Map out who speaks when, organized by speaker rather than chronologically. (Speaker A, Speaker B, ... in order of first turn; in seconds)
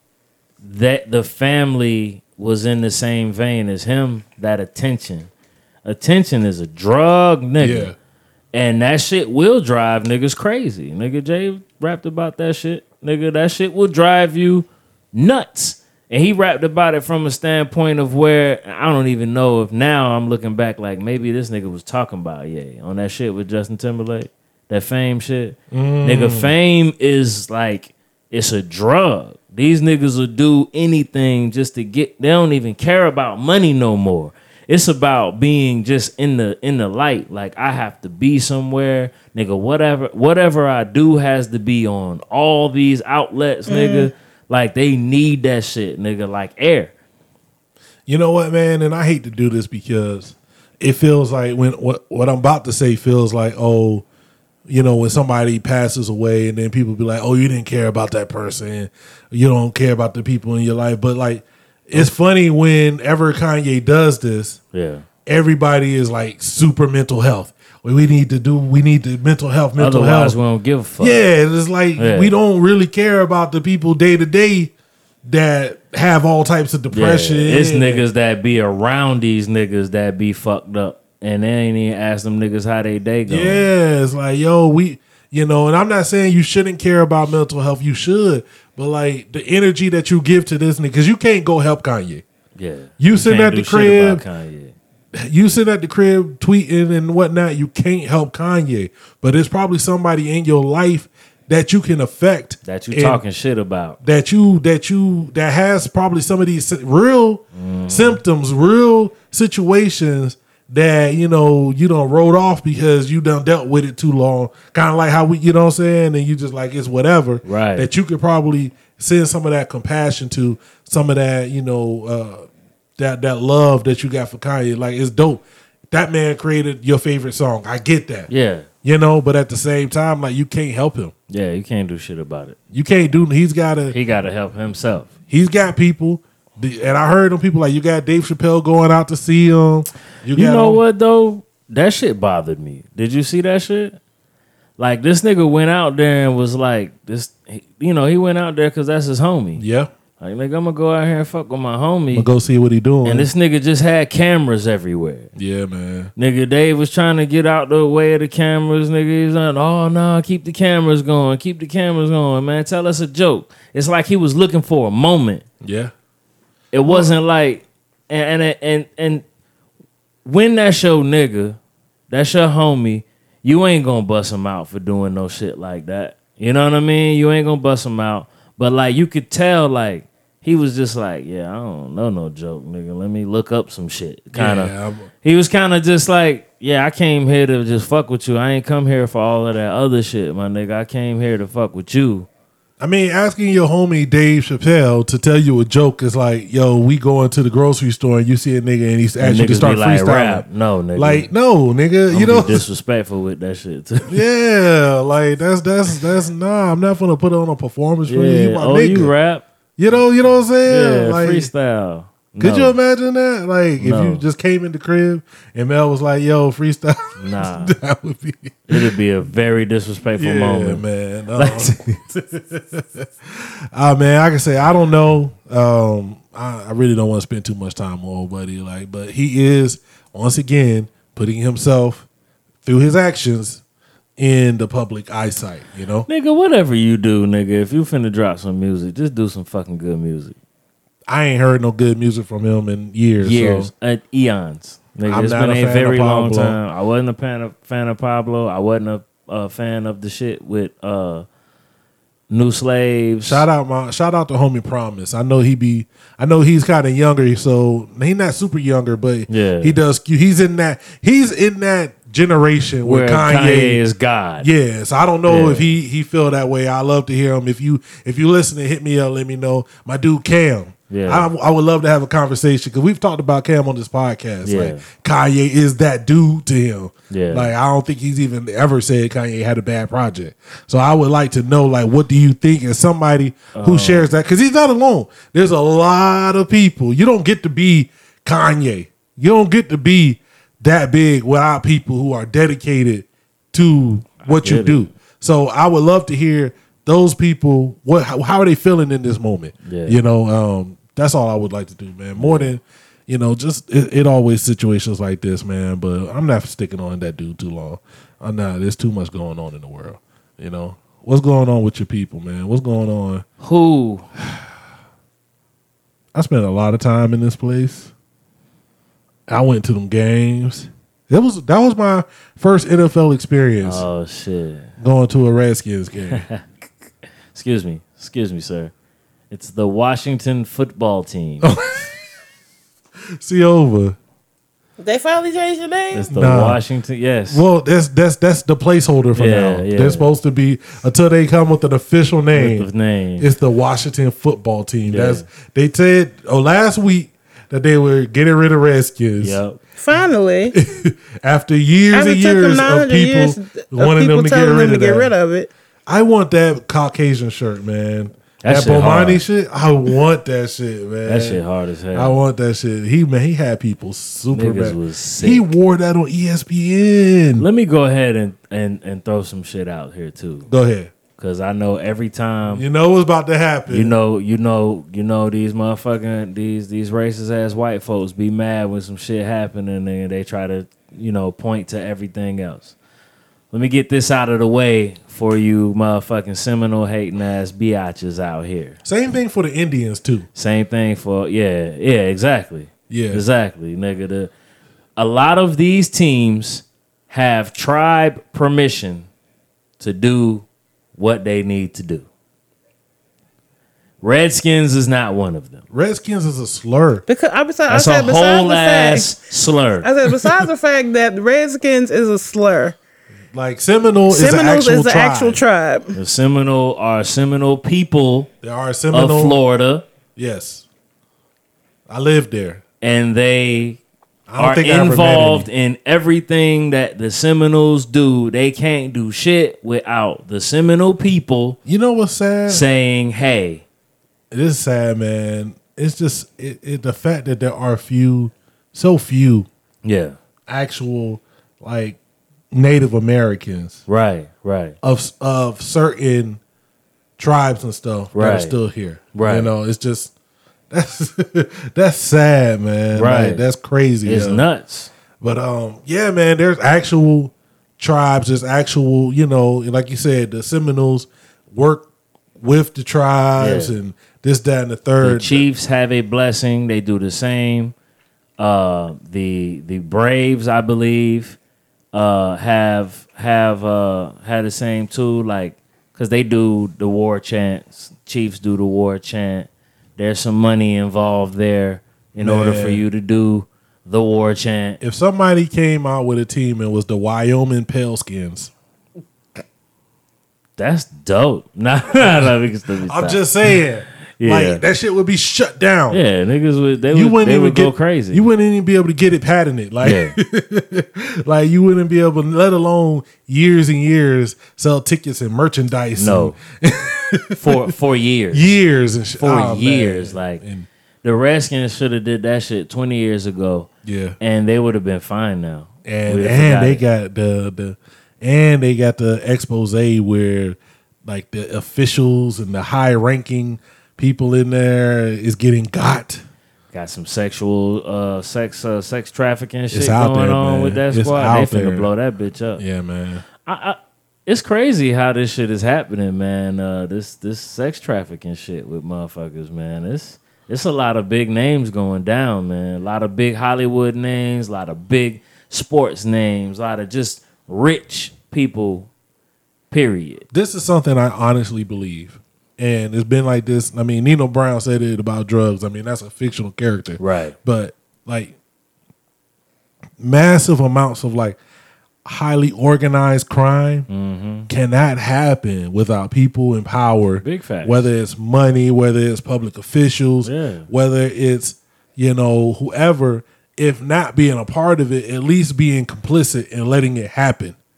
Speaker A: 0.6-5.3, 5.8-7.9, 8.5-46.9, 64.7-65.1, 69.8-71.2, 72.0-72.3, 76.9-83.7, 92.6-94.7, 102.7-104.0, 107.5-108.2, 117.4-117.9, 128.3-128.7, 131.3-132.6, 133.9-135.1, 140.3-144.0, 144.8-149.6, 150.2-152.3, 153.0-155.3, 156.2-165.4, 166.7-169.2, 170.2-171.6, 172.1-192.3, 199.2-201.3, 202.1-204.2, 208.1-210.0, 210.7-212.8, 213.8-214.2, 217.2-217.8, 218.7-220.8, 221.4-221.7, 236.1-240.4, 243.2-251.2, 252.3-253.4, 259.3-259.8, 262.8-264.5, 265.3-265.7, 270.9-271.3, 274.4-274.8, 277.1-277.5, 283.6-284.1, 294.2-294.9, 299.6-300.0, 302.2-302.5, 313.4-314.1, 323.6-324.7, 326.1-326.4, 327.3-328.7, 329.3-331.5, 335.9-337.4, 339.2-340.1, 342.4-343.3, 344.9-345.2, 349.2-349.6, 358.4-359.2, 361.1-362.2, 364.3-365.5, 367.4-370.5, 371.2-372.6, 373.7-382.8, 383.5-388.8, 390.4-394.3, 395.0-399.1, 399.8-400.4, 401.0-402.1, 404.0-405.6, 407.7-409.9, 415.9-418.3, 418.9-419.9, 422.8-423.8, 424.4-431.6, 432.5-433.6, 439.8-440.2, 443.9-444.8, 448.1-448.6, 449.1-449.5, 452.9-453.4, 454.0-454.9, 463.4-463.7, 465.0-467.7, 468.4-471.4, 471.9-484.8, 490.6-493.6, 494.2-494.6, 495.9-498.2, 499.8-500.2, 506.0-506.4, 507.4-508.6, 509.2-510.4, 511.0-513.7, 514.2-516.8, 526.7-532.6, 533.5-548.9, 549.7-550.2, 557.0-557.4, 563.9-564.5, 567.2-567.9, 570.2-570.7
Speaker B: 7.6-8.0, 25.7-26.5, 48.1-54.0, 54.7-64.6, 65.3-70.4, 71.0-74.7, 75.2-78.0, 83.3-92.2, 93.0-94.2, 95.1-103.2, 104.0-122.5, 123.0-128.3, 128.8-131.1, 132.7-133.9, 135.3-140.8, 149.6-149.9, 152.1-153.3, 155.4-156.1, 165.6-165.9, 166.9-167.1, 184.3-185.1, 192.8-200.4, 201.0-202.7, 204.1-209.1, 209.8-211.5, 212.4-218.9, 220.2-232.1, 232.7-233.6, 234.2-236.1, 241.1-243.7, 245.1-246.6, 253.2-263.8, 264.4-313.2, 316.1-317.9, 319.3-323.9, 324.8-326.2, 331.4-331.9, 333.2-334.0, 336.1-336.6, 337.3-342.7, 343.2-349.4, 350.5-355.1, 355.9-361.4, 361.9-367.5, 370.5-370.9, 372.5-373.9, 388.9-390.3, 392.9-393.2, 405.7-407.0, 413.3-415.4, 418.4-419.4, 420.2-420.6, 421.9-422.6, 424.3-425.5, 431.6-432.6, 434.3-439.5, 440.5-442.0, 442.5-443.8, 444.8-446.4, 447.2-450.1, 450.7-454.4, 455.2-461.9, 462.4-465.4, 482.2-482.9, 484.8-488.5, 492.0-492.3, 492.9-496.0, 496.9-507.7, 508.3-510.7, 513.9-514.2, 515.9-526.2, 529.7-531.9, 532.6-533.2, 550.3-558.4, 560.0-561.4, 562.0-563.9, 564.5-577.6
Speaker C: 43.7-44.1, 334.8-336.1, 349.8-350.6, 351.9-355.5, 407.1-409.1, 409.8-412.8, 414.1-415.9